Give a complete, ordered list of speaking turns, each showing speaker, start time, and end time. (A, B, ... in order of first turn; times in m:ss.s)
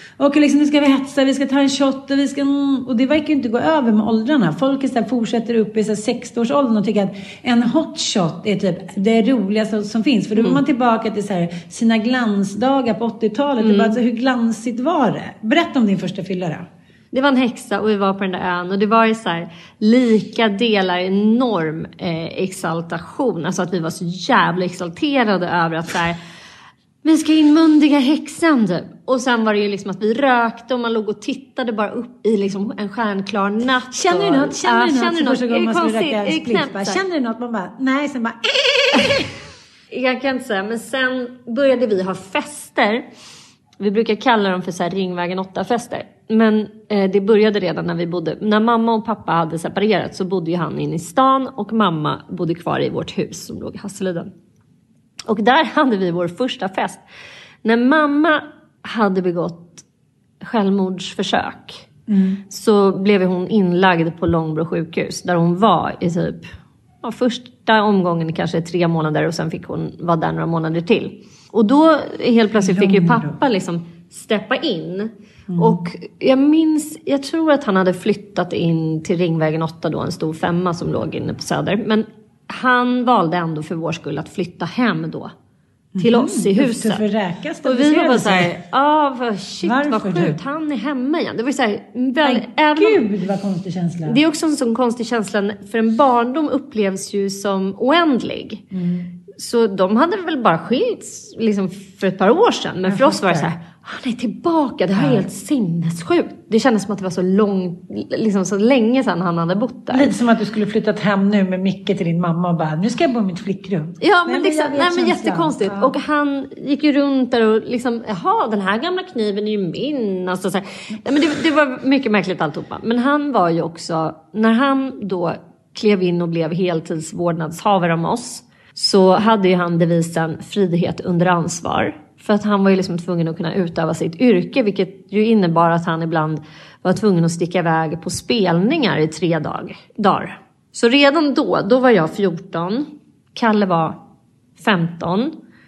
0:00.2-0:16.7 A
0:13.6-0:14.0 B
0:17.1-0:26.2 B
0:27.0-0:37.0 B
0:33.9-0:39.3 A
0:39.9-0:43.0 B
0:43.8-0:54.3 B
0:55.3-0:57.0 B
0:57.6-0:59.8 B
1:00.4-1:01.8 B
1:02.1-1:02.4 A
1:02.5-1:06.5 B
1:07.0-1:25.3 B
1:12.6-1:13.3 A
1:15.5-1:15.8 A
1:26.0-1:28.5 A
1:26.0-1:27.0 B
1:27.6-1:33.0 B
1:29.6-1:30.4 A
1:32.2-1:34.2 A
1:34.1-1:38.7 B
1:38.7-1:39.1 A
1:39.4-1:50.1 B
1:42.9-1:43.5 A
1:45.0-1:45.2 A
1:49.9-1:55.9 A
1:54.0-2:24.0 B
2:24.6-2:25.4 B